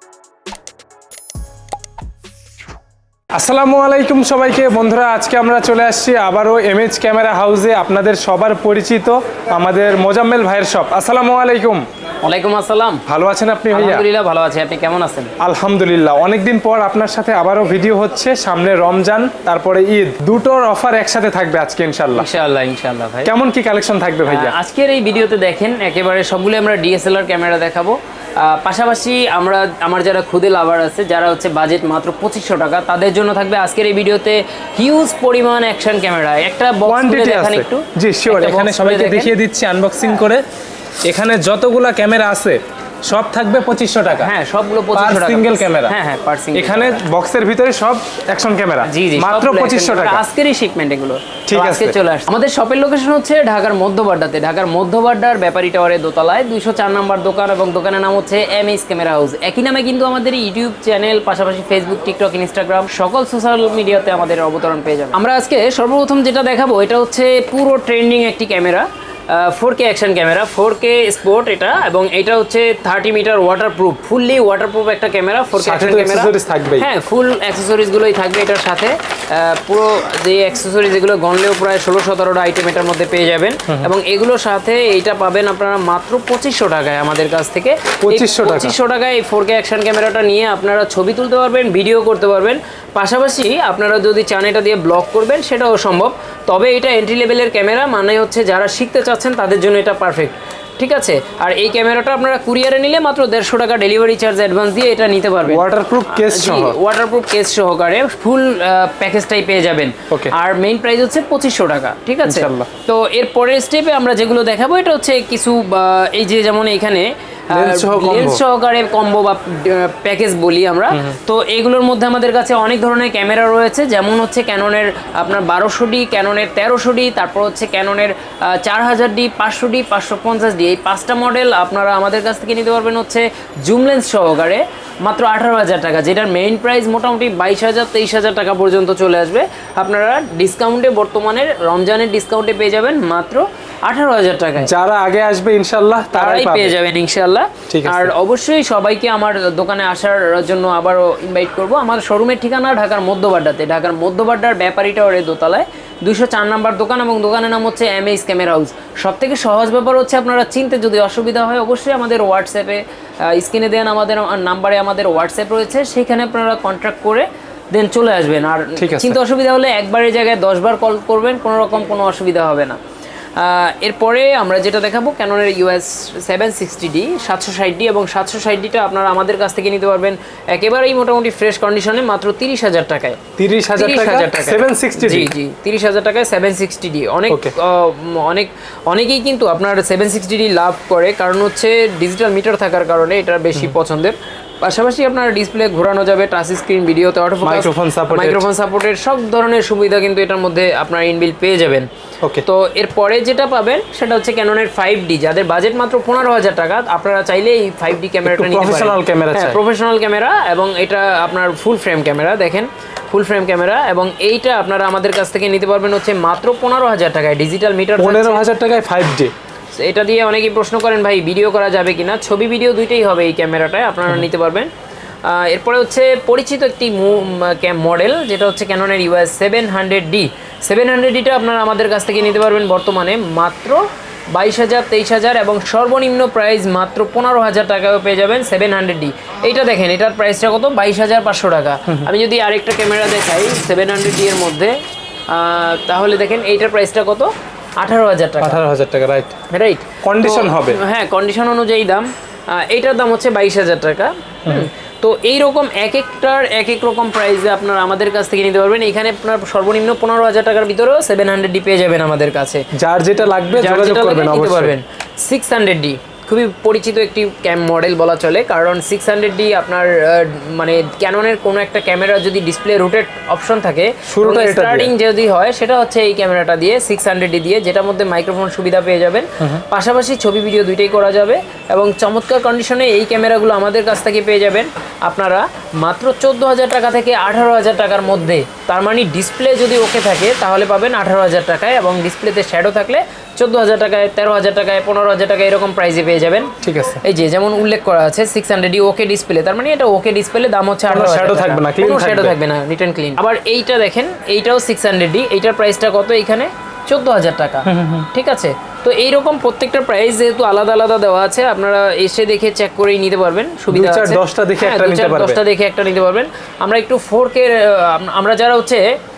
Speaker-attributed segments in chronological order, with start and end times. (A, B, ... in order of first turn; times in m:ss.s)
0:03.3-0:11.8 A
0:12.2-0:13.0 B
0:13.0-0:14.0 A
0:13.7-0:15.3 B
0:15.4-0:22.3 A
0:22.1-0:23.3 B
0:23.2-0:24.6 A
0:24.2-0:39.3 B
0:36.8-0:40.4 A
0:41.0-0:44.3 A
0:44.2-0:47.0 B
0:44.9-0:45.9 A
0:46.5-0:50.2 A
0:48.8-2:24.7 B
0:51.5-0:52.0 A
1:15.6-1:16.9 A
1:28.0-1:28.8 A
1:45.4-1:46.8 A
1:52.2-1:52.7 A
1:57.5-1:58.4 A
2:00.9-2:01.2 A
2:24.6-2:26.8 A
2:26.1-2:52.8 B
2:27.7-2:28.1 A
2:48.8-2:49.2 A
2:53.4-3:03.2 B
3:03.4-3:05.3 A
3:03.8-3:21.9 B
3:07.3-3:07.5 A
3:17.4-3:18.5 A
3:22.4-3:38.4 B
3:28.2-3:29.6 A
3:38.0-3:39.3 A
3:39.7-3:44.7 B
3:45.2-4:04.7 B
4:05.3-4:08.6 B
4:08.4-4:09.4 A
4:09.5-4:22.6 B
4:10.0-4:10.8 A
4:22.7-4:24.7 A
4:23.5-5:18.8 B
4:34.1-4:34.9 A
4:56.6-4:57.0 A
5:00.9-5:02.4 A
5:07.6-5:08.1 A
5:13.7-5:15.4 A